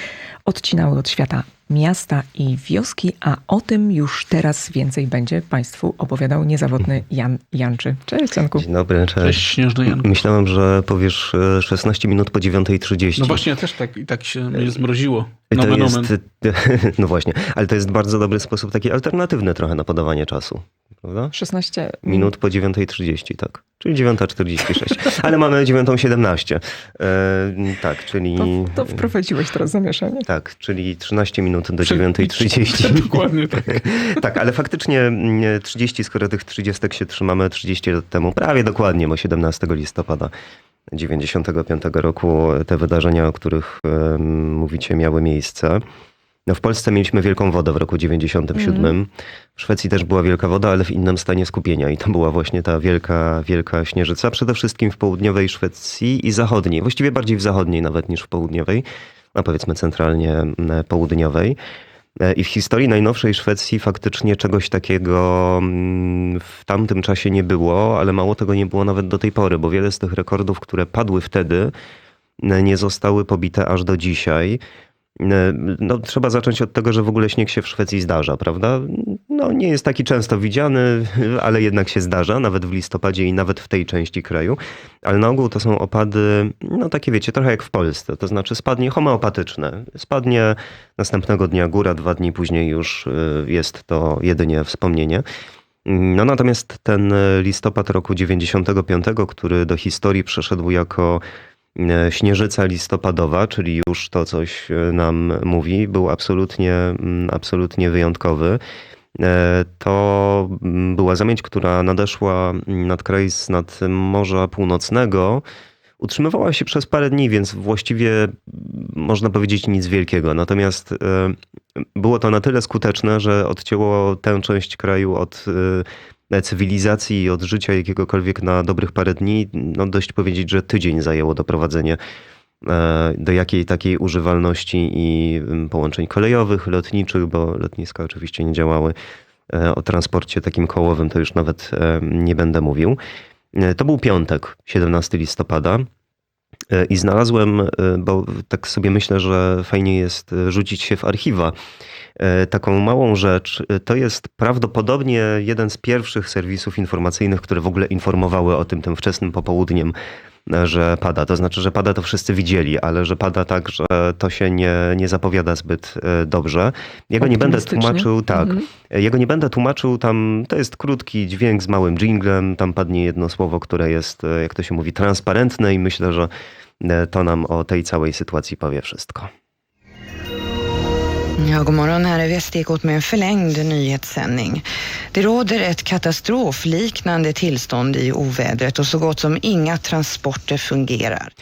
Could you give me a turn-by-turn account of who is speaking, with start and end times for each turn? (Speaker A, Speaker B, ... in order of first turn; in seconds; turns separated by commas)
Speaker A: 0.5-8.7, Speaker B: 8.5-13.4, Speaker C: 9.2-10.1, Speaker C: 13.2-16.1, Speaker B: 15.5-21.3, Speaker A: 21.3-22.3, Speaker B: 22.0-29.0, Speaker A: 28.4-30.3, Speaker B: 30.3-40.3, Speaker C: 31.8-34.0, Speaker B: 40.9-45.8, Speaker B: 46.5-61.6, Speaker A: 48.6-48.9, Speaker B: 62.2-71.7, Speaker B: 72.4-74.6, Speaker B: 75.2-95.2, Speaker B: 95.8-101.2, Speaker B: 101.8-108.6, Speaker B: 109.2-115.4, Speaker B: 116.0-132.0, Speaker B: 132.6-138.9, Speaker B: 139.5-143.0, Speaker B: 143.5-145.8, Speaker B: 146.7-151.5, Speaker B: 152.2-159.9, Speaker B: 160.5-179.3, Speaker A: 167.2-168.6, Speaker D: 181.4-191.3